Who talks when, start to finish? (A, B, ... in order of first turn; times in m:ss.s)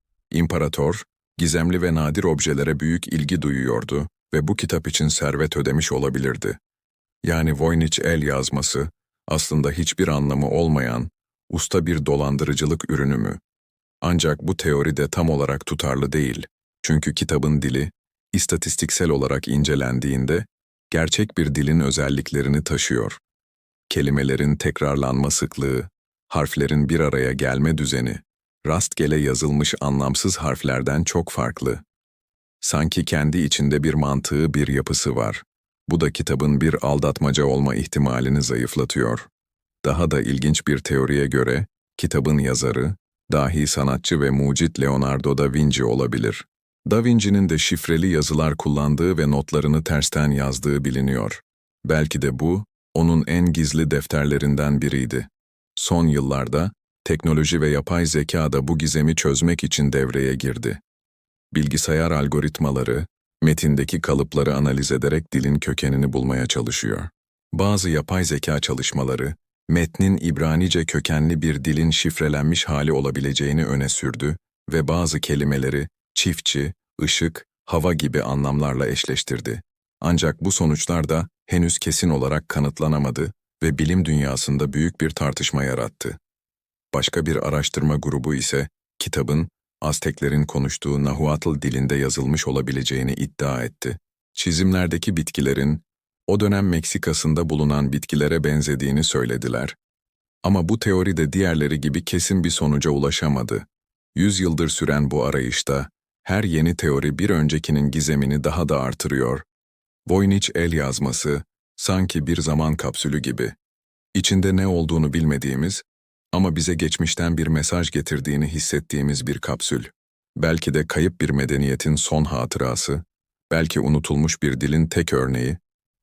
0:00.3-0:06.6 A
0:07.2-0:13.4 A
0:14.0-0:23.2 A
0:23.9-0:31.8 A
0:32.6-0:39.3 A
0:39.8-1:00.8 A
1:01.5-1:26.2 A
1:26.9-1:39.8 A
1:40.4-1:49.4 A
1:50.1-1:53.6 A
1:54.1-2:05.6 A